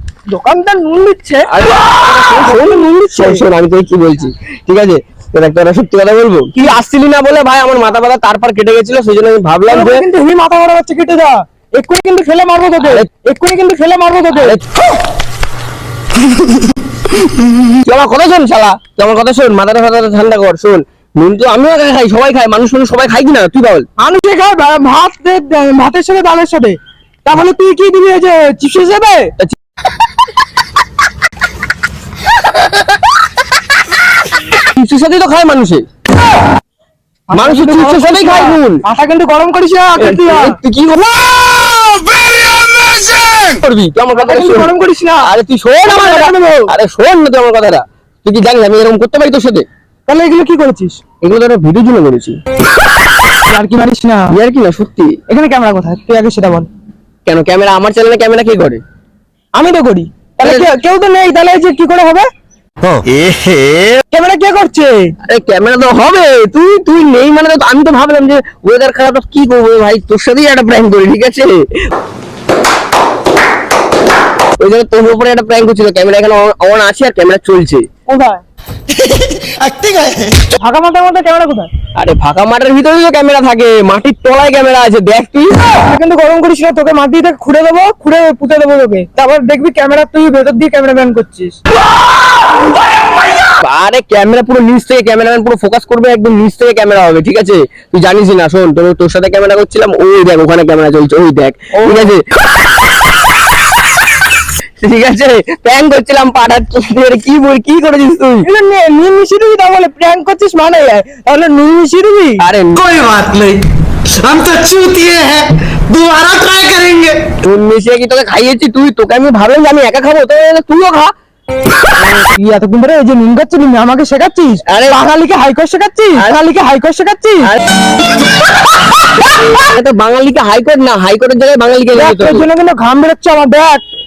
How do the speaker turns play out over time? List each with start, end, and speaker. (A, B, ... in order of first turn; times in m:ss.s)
0:00.3-0:01.5 A
0:01.5-0:10.1 B
0:02.2-0:03.4 A
0:09.7-0:14.6 A
0:12.8-0:13.1 B
0:14.3-0:14.8 B
0:17.7-0:23.8 B
0:24.0-0:29.3 A
0:34.5-0:35.8 B
0:37.3-0:40.6 A
0:37.4-0:38.8 B
0:40.0-0:44.7 B
0:44.2-0:45.3 A
0:45.2-0:49.6 B
0:45.8-0:46.7 A
0:50.1-0:51.0 A
0:51.2-0:52.4 B
0:53.3-0:54.3 A
0:54.3-0:55.1 B
0:55.3-0:56.7 A
0:57.2-0:58.8 B
0:59.5-1:02.3 A
1:00.4-1:00.7 B
1:03.1-1:04.0 B
1:04.1-1:05.1 A
1:05.3-1:11.6 B
1:14.6-1:17.8 B
1:18.1-1:18.4 A
1:19.1-1:20.5 C
1:20.6-1:21.7 A
1:22.0-1:25.6 B
1:25.8-1:31.6 A
1:33.5-1:42.2 B
1:41.7-1:42.1 A
1:44.8-1:48.4 B
1:48.4-1:52.4 A
1:52.4-1:52.8 B
1:52.7-1:53.6 C
1:54.2-1:57.3 C
1:57.4-2:01.1 B
2:02.2-2:07.5 A
2:04.7-2:05.0 B
2:09.5-2:12.5 B
2:11.9-2:13.9 A